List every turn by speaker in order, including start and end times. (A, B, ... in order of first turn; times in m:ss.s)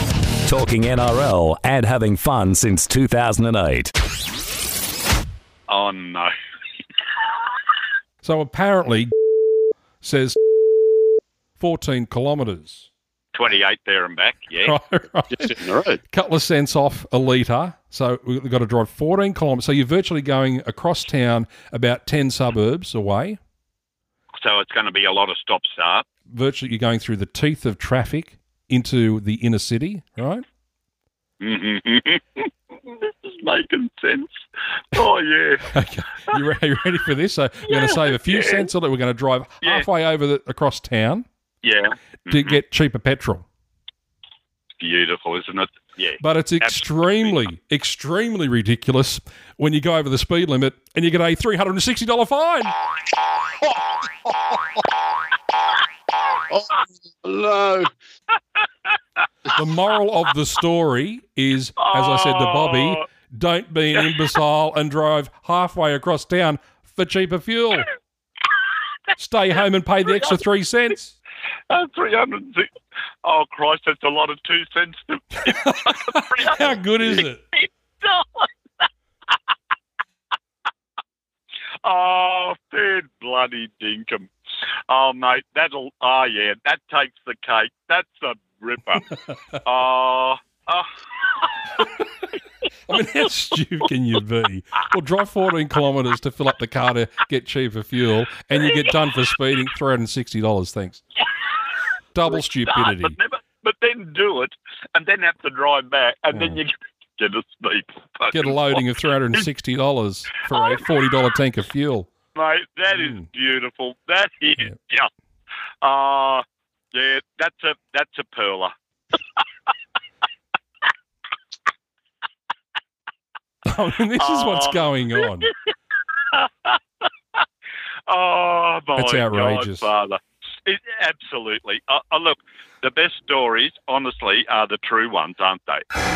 0:00.4-0:03.9 A
0:05.7-0:06.3 B
0:08.2-0:09.1 C
0:10.0-0:10.4 C
0:11.6-0:12.9 C
0:13.3-0:14.7 B
0:14.6-0:23.4 C
0:15.3-0:16.0 D
0:24.4-0:26.0 B
0:26.3-0:30.4 C
0:31.4-0:34.4 B
0:34.9-0:35.7 B
0:35.7-0:41.2 C
0:37.7-0:38.7 B
0:41.6-0:42.6 B
0:42.3-0:43.4 C
0:44.8-0:47.3 B
0:46.2-0:52.7 C
0:56.5-0:57.9 D
0:59.5-1:07.9 C
1:01.8-1:03.0 B
1:04.0-1:04.3 B
1:09.2-1:11.1 C
1:10.0-1:10.3 B
1:11.7-1:12.7 B
1:13.2-1:18.5 B
1:15.4-1:17.4 C
1:21.8-1:24.3 B
1:24.9-1:29.1 B
1:29.6-1:31.8 B
1:32.9-1:41.0 C
1:38.5-1:39.0 B
1:42.1-1:43.2 C
1:42.3-1:48.8 B
1:46.3-1:46.6 C
1:48.3-1:52.1 C
1:50.5-1:50.8 B
1:52.3-1:55.1 B
1:52.9-1:53.2 C
1:55.8-1:58.7 B
2:03.6-2:05.5 C
2:04.2-2:05.5 B
2:06.3-2:06.8 B
2:08.1-2:15.8 B
2:09.0-2:09.8 C